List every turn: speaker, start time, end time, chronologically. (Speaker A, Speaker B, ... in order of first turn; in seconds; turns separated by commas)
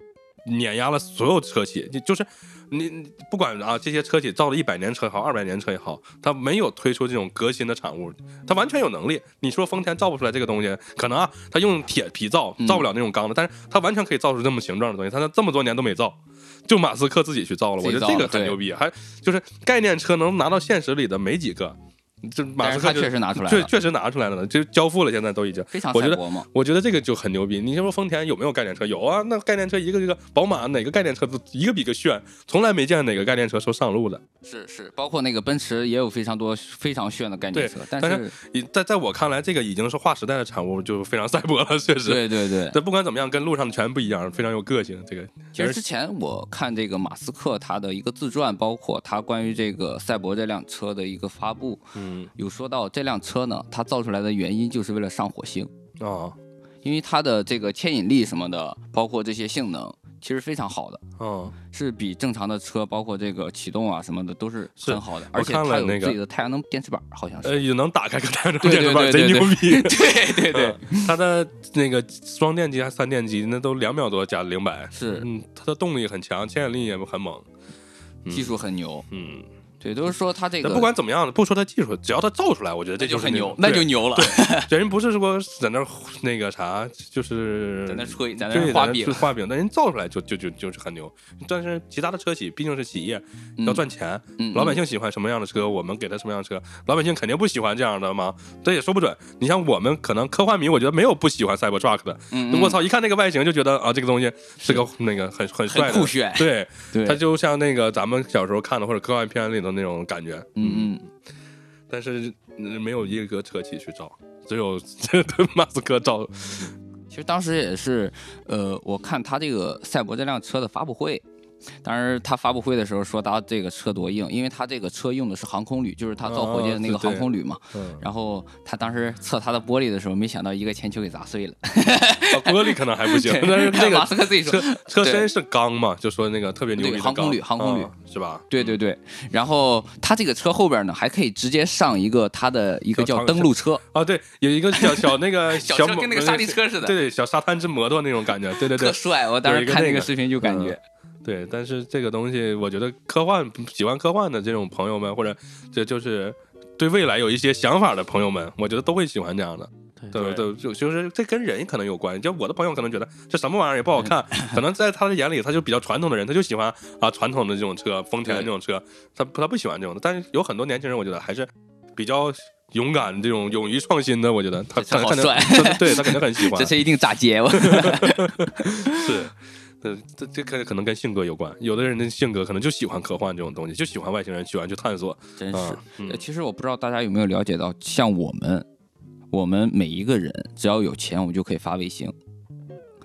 Speaker A: 0.4-34.2, Speaker B: 12.6-12.8, Speaker B: 17.8-18.6, Speaker B: 22.6-23.7, Speaker B: 25.7-26.5, Speaker B: 34.4-38.3, Speaker A: 37.5-45.8, Speaker B: 42.0-42.8, Speaker B: 45.5-51.8, Speaker A: 52.0-52.3, Speaker B: 52.4-55.7, Speaker A: 56.0-56.4, Speaker B: 56.8-61.0, Speaker A: 61.2-61.5, Speaker B: 61.7-67.6, Speaker A: 64.8-66.2, Speaker A: 67.4-77.5, Speaker B: 68.6-71.1, Speaker B: 74.9-75.3, Speaker A: 78.2-78.5, Speaker B: 78.3-79.0, Speaker A: 79.1-79.5, Speaker B: 79.8-80.9, Speaker A: 80.6-111.0, Speaker B: 83.0-84.7, Speaker B: 87.8-89.3, Speaker B: 93.6-93.8, Speaker B: 94.4-94.8, Speaker B: 102.3-102.8, Speaker B: 105.7-107.2, Speaker B: 110.5-111.0, Speaker A: 111.9-116.7, Speaker B: 117.1-121.2, Speaker B: 121.8-135.3, Speaker A: 126.2-128.0, Speaker A: 132.3-138.8, Speaker B: 136.8-137.9, Speaker B: 138.5-143.8, Speaker A: 142.9-176.7, Speaker B: 144.7-147.0, Speaker B: 148.6-150.8, Speaker B: 160.1-160.4, Speaker B: 168.2-168.5, Speaker B: 174.8-179.1, Speaker A: 177.5-186.2, Speaker B: 185.4-188.7, Speaker B: 189.3-192.1